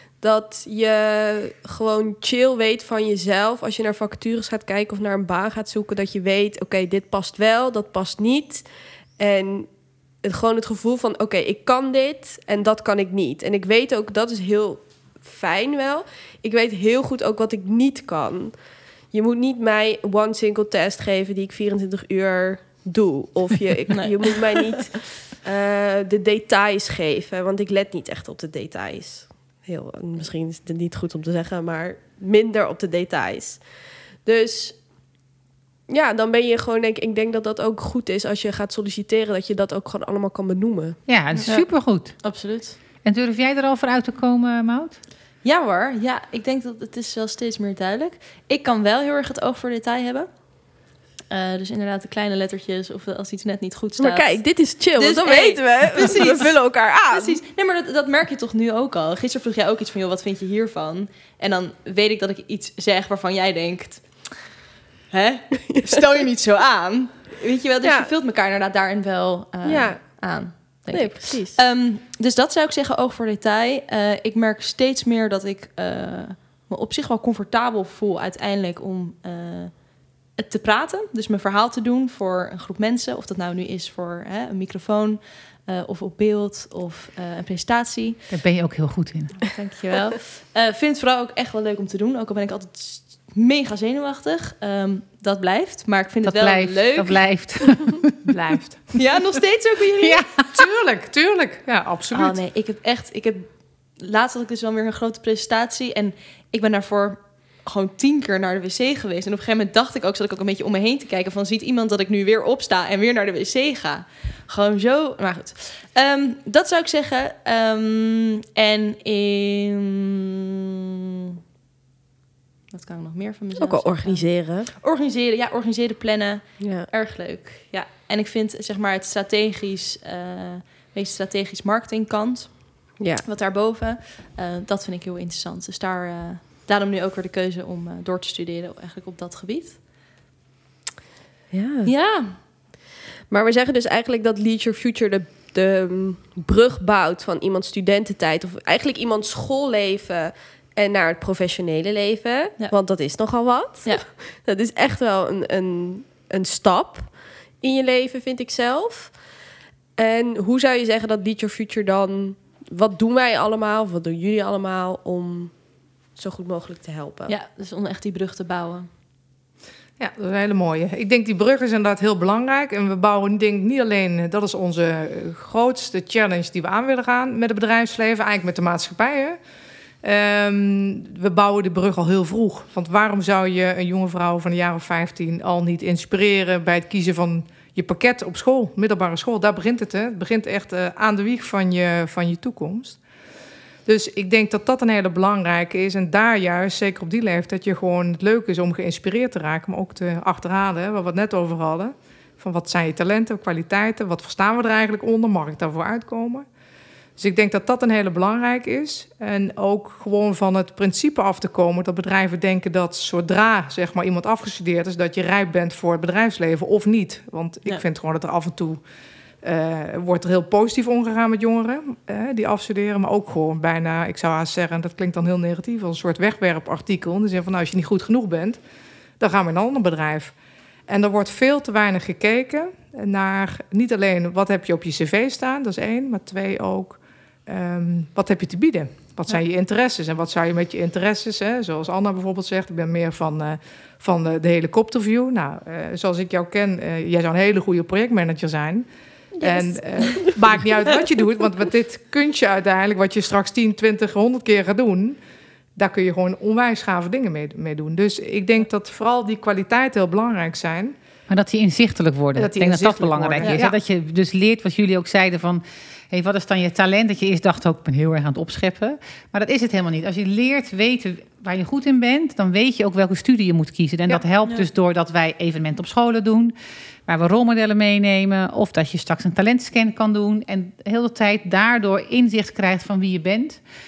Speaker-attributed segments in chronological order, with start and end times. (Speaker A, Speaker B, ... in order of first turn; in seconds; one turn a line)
Speaker A: 0.2-8.7
Speaker A: 9.2-9.7
Speaker A: 10.2-18.5
Speaker A: 19.1-33.6
Speaker B: 23.9-24.8
Speaker A: 34.2-34.8
Speaker A: 35.9-41.0
Speaker C: 41.1-42.4
Speaker B: 41.5-42.8
Speaker C: 43.0-45.0
Speaker B: 45.4-50.3
Speaker B: 51.3-54.5
Speaker A: 54.0-57.4
Speaker B: 55.0-56.6
Speaker B: 57.1-64.4
Speaker B: 65.1-79.8
Speaker A: 67.8-68.1
Speaker A: 69.6-70.2
Speaker A: 70.9-71.6
Speaker B: 80.3-88.2
Speaker C: 88.3-89.6
Speaker B: 89.5-97.8
Speaker C: 96.2-98.1
Speaker D: 98.3-98.9
Speaker B: 99.0-100.2
Speaker C: 100.0-100.7
Speaker D: 100.5-102.4
Speaker B: 102.1-120.6
Speaker B: 122.7-139.8
Speaker A: 123.6-124.7
Speaker A: 126.6-126.9
Speaker A: 133.0-133.2
Speaker A: 141.5-141.9
Speaker B: 141.9-142.4
Speaker A: 143.3-159.2
Speaker A: 160.0-165.5
Speaker A: 166.2-167.3
Speaker B: 167.3-168.9
Speaker D: 170.0-179.4
Speaker D: 180.0-193.0
Speaker D: 193.9-206.4
Speaker D: 207.2-218.8
Speaker D: 219.4-228.6
Speaker D: 229.2-230.3
Speaker D: 230.9-248.9
Speaker A: 249.4-250.6
Speaker D: 249.4-255.2
Speaker D: 255.8-261.0
Speaker C: 261.3-276.5
Speaker D: 262.4-263.8
Speaker B: 263.4-263.7
Speaker C: 277.1-283.6